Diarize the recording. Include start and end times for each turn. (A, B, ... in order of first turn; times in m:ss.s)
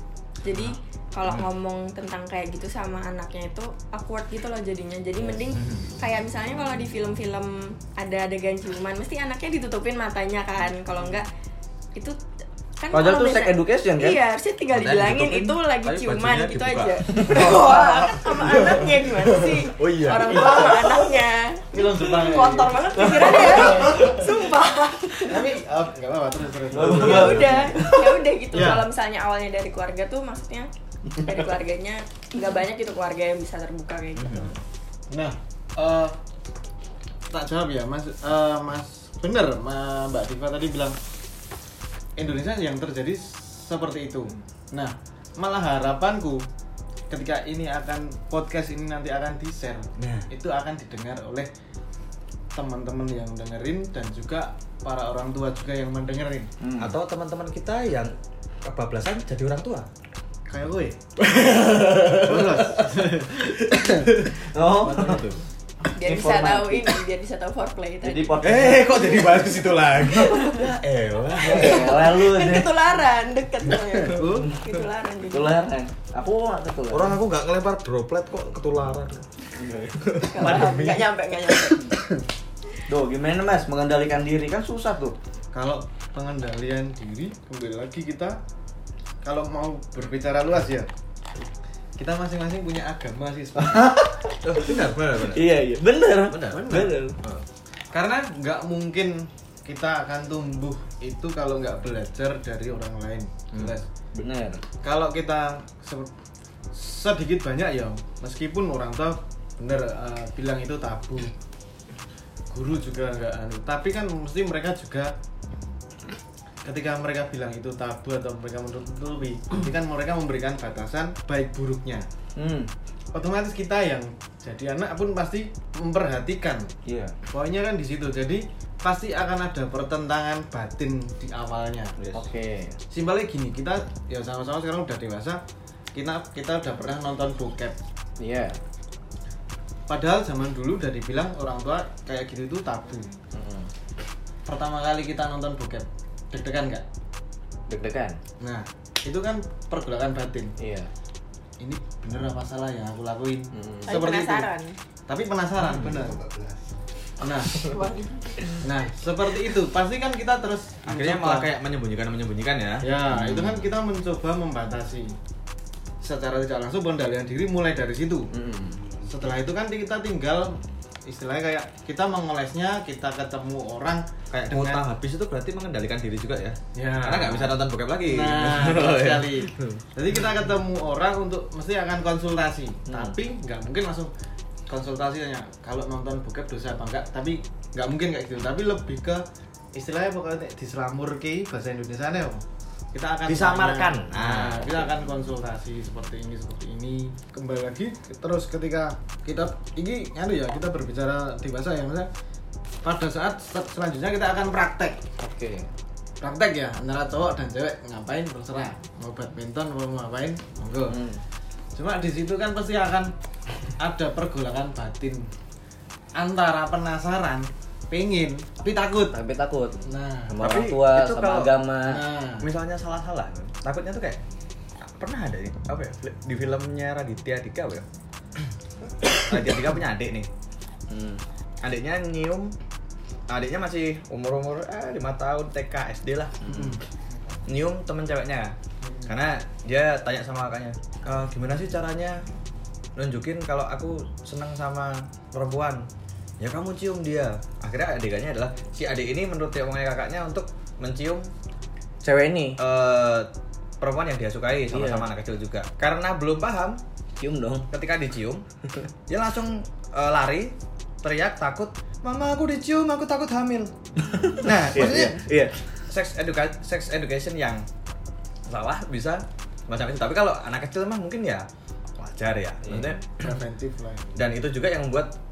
0:00.4-0:11.3 A
0:05.5-0:05.9 B
0:12.8-0:25.4 A
0:12.9-0:14.2 C
0:14.7-0:20.9 B
0:17.1-0:17.6 C
0:20.3-0:20.8 D
0:21.7-0:24.2 D
0:23.0-0:24.3 C
0:25.2-0:27.9 D
0:26.7-0:28.2 C
0:26.8-0:34.6 A
0:28.5-0:28.8 D
0:31.2-0:31.4 C
0:34.2-0:34.6 B
0:35.1-0:36.2 D
0:37.3-0:41.0 D
0:42.2-0:46.5 D
0:47.1-0:51.5 D
0:50.0-0:50.3 B
0:52.5-0:56.5 D
0:56.6-0:57.0 C
0:56.8-0:59.9 B
1:00.5-1:01.0 D
1:01.3-1:02.6 B
1:01.6-1:04.4 D
1:01.9-1:02.2 C
1:03.9-1:05.2 C
1:04.8-1:05.4 B
1:05.0-1:05.2 D
1:05.9-1:08.4 A
1:06.0-1:07.0 C
1:08.0-1:09.0 C
1:08.4-1:12.0 B
1:10.1-1:10.7 A
1:11.4-1:12.7 C
1:11.4-1:15.6 A
1:14.0-1:14.6 D
1:14.3-1:14.6 C
1:15.3-1:17.2 C
1:16.9-1:19.3 B
1:19.6-1:20.6 C
1:20.0-1:21.1 B
1:20.2-1:22.0 A
1:22.9-1:25.2 C
1:25.5-1:28.4 D
1:29.2-1:30.9 D
1:32.0-1:34.0 D
1:33.6-1:37.2 C
1:34.4-1:35.5 B
1:36.3-1:37.4 B
1:36.5-1:37.0 D
1:37.9-1:43.9 D
1:44.2-1:44.6 C
1:44.8-1:46.1 D
1:46.7-1:51.3 D
1:52.5-1:55.1 D
1:56.6-2:02.1 D
2:02.4-2:02.7 C
2:03.1-2:06.7 D
2:06.8-2:07.2 C
2:07.3-2:12.0 D
2:12.0-2:12.2 B
2:12.1-2:12.8 C
2:12.9-2:15.4 D
2:15.9-2:17.8 D
2:18.2-2:18.6 C
2:19.9-2:23.1 D
2:23.3-2:23.7 C
2:24.5-2:26.8 D
2:27.7-2:28.2 C
2:28.4-2:30.5 D
2:30.6-2:30.9 C
2:31.6-2:34.5 D
2:33.5-2:34.0 C
2:33.9-2:34.8 A
2:35.1-2:36.2 D
2:35.6-2:36.1 B
2:37.2-2:37.7 D
2:37.6-2:38.6 A
2:38.6-2:41.5 D
2:40.9-2:42.9 B
2:42.8-2:45.2 D
2:43.1-2:43.7 C
2:46.0-2:48.3 D
2:48.3-2:48.8 C
2:49.0-2:54.8 D
2:54.3-2:59.5 B
2:56.8-3:04.1 D
3:02.9-3:03.2 C
3:04.7-3:22.1 D
3:13.3-3:14.9 B
3:22.8-3:25.0 D
3:25.2-3:25.7 C
3:26.2-3:31.0 D
3:30.9-3:31.2 C
3:31.8-3:33.1 D
3:33.8-3:35.3 D
3:36.2-3:39.2 D
3:39.1-3:42.0 C
3:39.8-3:40.4 D
3:40.4-3:41.6 B
3:41.8-3:42.5 D
3:42.4-3:44.2 B
3:44.8-3:47.9 B
3:49.1-3:50.3 B
3:50.9-3:51.2 C
3:51.6-3:52.5 B
3:53.3-3:56.5 B
3:56.5-3:56.8 C
3:56.5-3:56.8 D
3:57.5-4:02.2 B
3:58.8-3:59.1 D
4:03.0-4:05.9 B
4:06.4-4:11.3 B
4:12.0-4:12.6 C
4:12.6-4:13.3 B
4:13.8-4:16.8 B
4:14.7-4:15.1 C
4:17.2-4:17.7 C
4:17.7-4:18.4 B
4:19.1-4:23.7 B
4:24.0-4:25.6 C
4:24.4-4:25.3 B
4:25.9-4:27.7 B
4:28.5-4:31.5 B
4:32.0-4:33.4 B
4:32.6-4:32.9 C
4:33.2-4:34.1 D
4:34.2-4:35.1 B